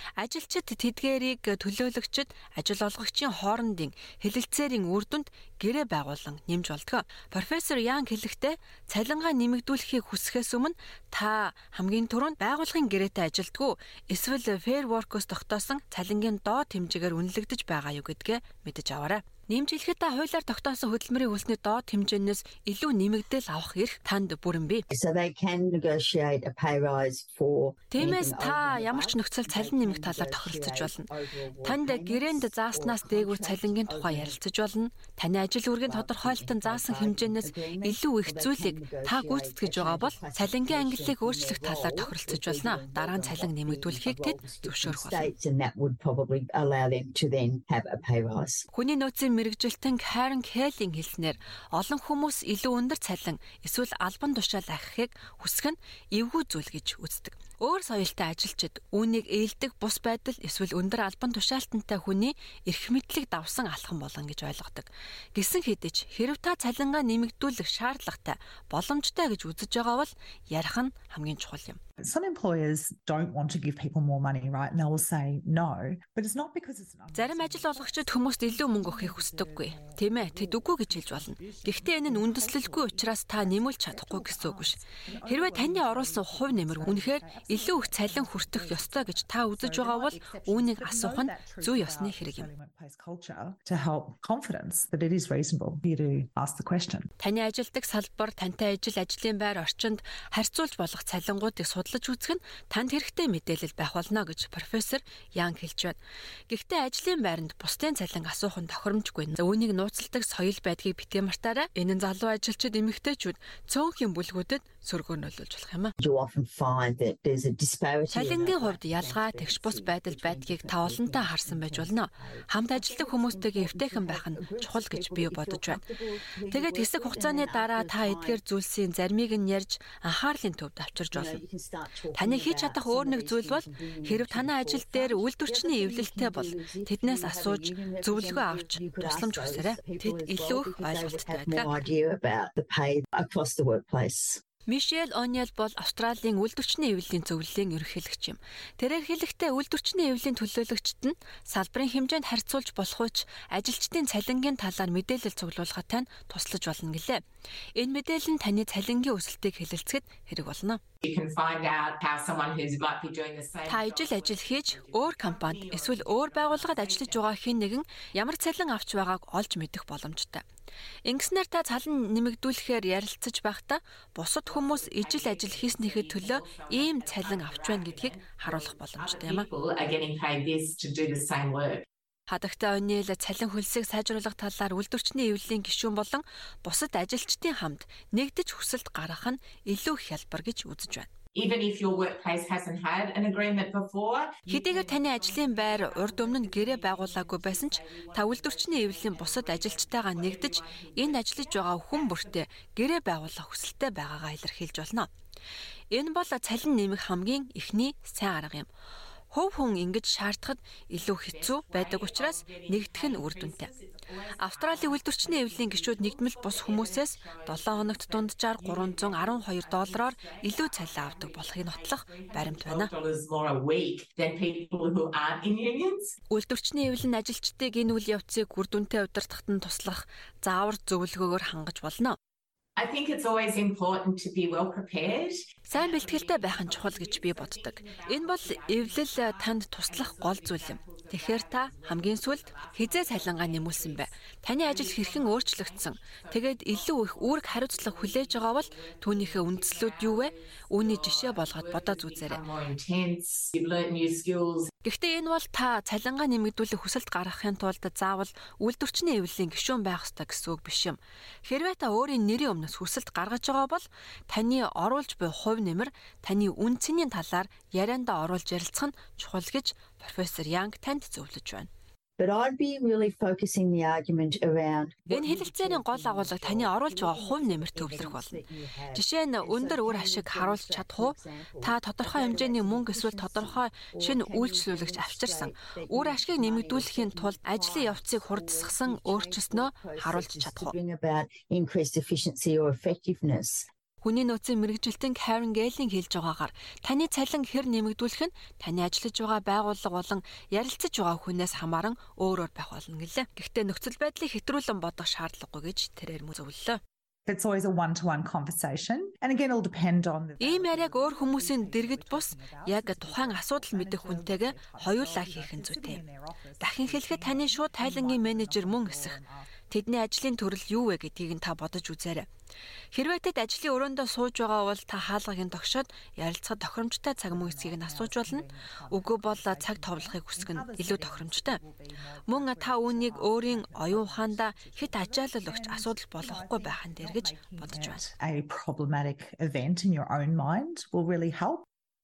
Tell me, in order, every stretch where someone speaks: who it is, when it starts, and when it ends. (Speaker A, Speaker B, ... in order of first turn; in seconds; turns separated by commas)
Speaker A: 0.2-24.9, Speaker B: 24.9-34.4, Speaker A: 27.9-31.1, Speaker A: 31.6-45.3, Speaker B: 35.9-48.7, Speaker A: 48.7-71.8, Speaker C: 72.0-97.1, Speaker A: 77.1-92.5, Speaker A: 97.2-106.0, Speaker A: 106.5-115.9, Speaker B: 116.0-122.5, Speaker A: 118.1-125.8, Speaker D: 122.7-123.4, Speaker B: 123.1-128.4, Speaker A: 126.5-131.4, Speaker B: 131.1-144.4, Speaker A: 132.2-141.8, Speaker A: 144.7-157.2, Speaker A: 157.8-160.8, Speaker D: 161.0-167.3, Speaker A: 163.7-170.4, Speaker A: 171.1-179.5, Speaker D: 174.5-181.9, Speaker A: 182.3-191.1, Speaker D: 191.3-202.4, Speaker A: 194.5-205.1, Speaker A: 205.9-208.7, Speaker A: 209.3-213.7, Speaker D: 211.1-226.2, Speaker A: 214.4-222.9, Speaker A: 226.3-232.2, Speaker D: 232.8-254.7, Speaker A: 235.7-252.4, Speaker A: 254.8-271.7, Speaker B: 272.2-293.7, Speaker A: 275.1-278.4, Speaker A: 278.9-290.8, Speaker A: 294.0-306.8, Speaker C: 307.3-319.5, Speaker A: 310.4-316.0, Speaker A: 316.6-322.3, Speaker A: 322.9-331.6, Speaker C: 327.3-341.6, Speaker A: 332.3-338.1